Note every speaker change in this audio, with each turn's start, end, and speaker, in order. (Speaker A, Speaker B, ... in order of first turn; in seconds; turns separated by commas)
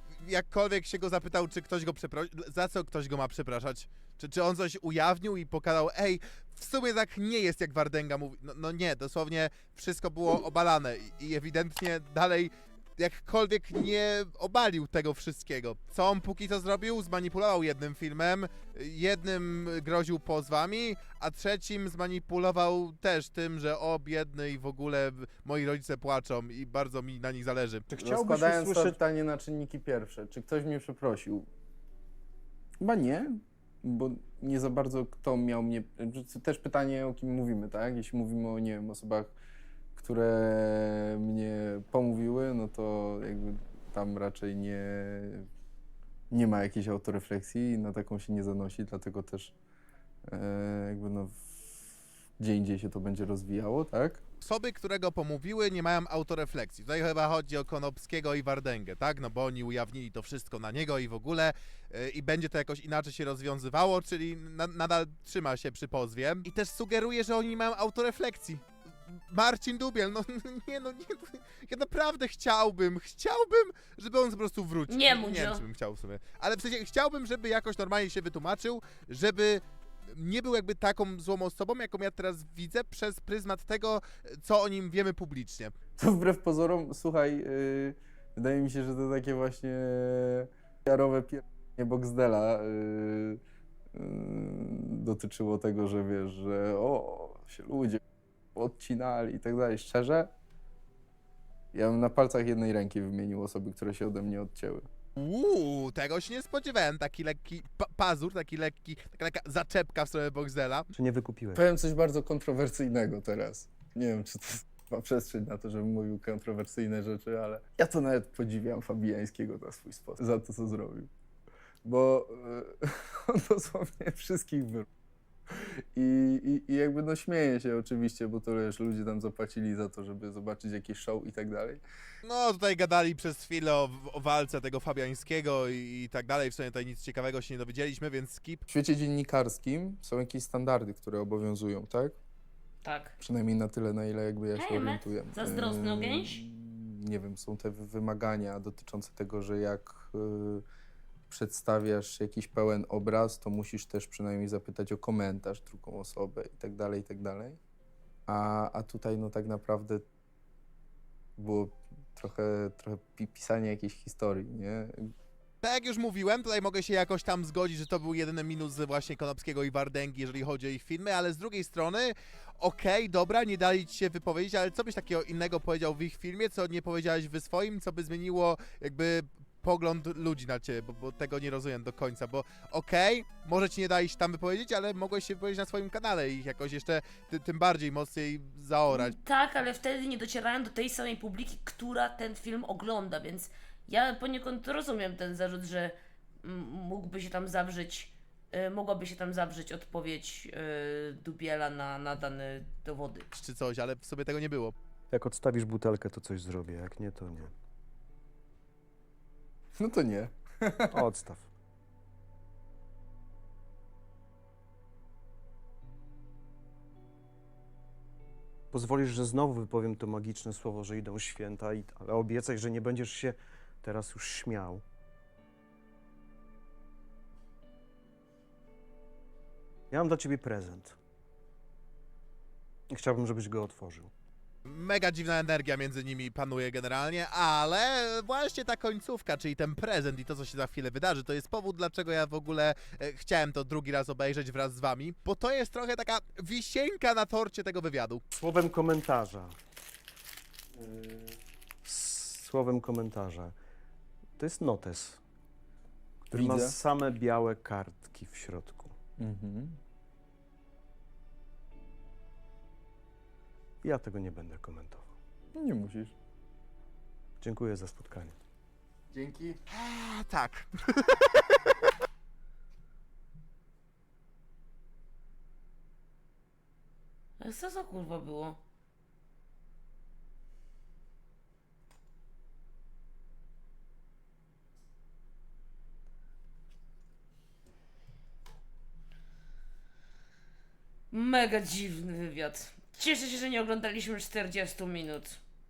Speaker A: 0.2-27.9, Speaker B: 27.9-29.0, Speaker C: 28.0-31.5, Speaker C: 32.8-39.4, Speaker C: 40.0-45.5, Speaker C: 46.3-49.5, Speaker C: 50.3-51.6, Speaker C: 52.4-54.2, Speaker A: 54.4-85.7, Speaker D: 74.9-75.6, Speaker C: 86.0-93.4, Speaker C: 93.9-98.0, Speaker C: 98.5-100.3, Speaker C: 101.7-104.8, Speaker A: 105.2-110.9, Speaker B: 110.9-111.6, Speaker C: 111.5-121.1, Speaker C: 121.8-124.9, Speaker C: 125.6-131.8, Speaker A: 132.2-138.6, Speaker C: 138.7-142.2, Speaker D: 142.8-143.1, Speaker C: 143.2-150.6, Speaker D: 144.5-146.4, Speaker C: 151.3-157.6, Speaker C: 158.3-160.0, Speaker C: 161.4-165.1, Speaker A: 165.6-189.2, Speaker D: 188.9-203.3, Speaker A: 203.3-204.8, Speaker B: 205.1-207.5, Speaker C: 209.8-211.0, Speaker B: 210.9-211.5, Speaker B: 218.7-224.8, Speaker B: 229.9-231.0, Speaker B: 232.9-234.1, Speaker A: 234.7-248.2, Speaker B: 248.3-249.6, Speaker B: 251.8-253.5, Speaker B: 254.4-255.2, Speaker B: 256.3-258.9, Speaker C: 256.3-256.8, Speaker C: 259.2-259.8, Speaker B: 263.8-265.1, Speaker C: 265.6-266.1, Speaker B: 267.4-268.4, Speaker C: 269.1-269.6, Speaker A: 269.7-271.9, Speaker D: 277.4-278.6, Speaker D: 291.1-295.4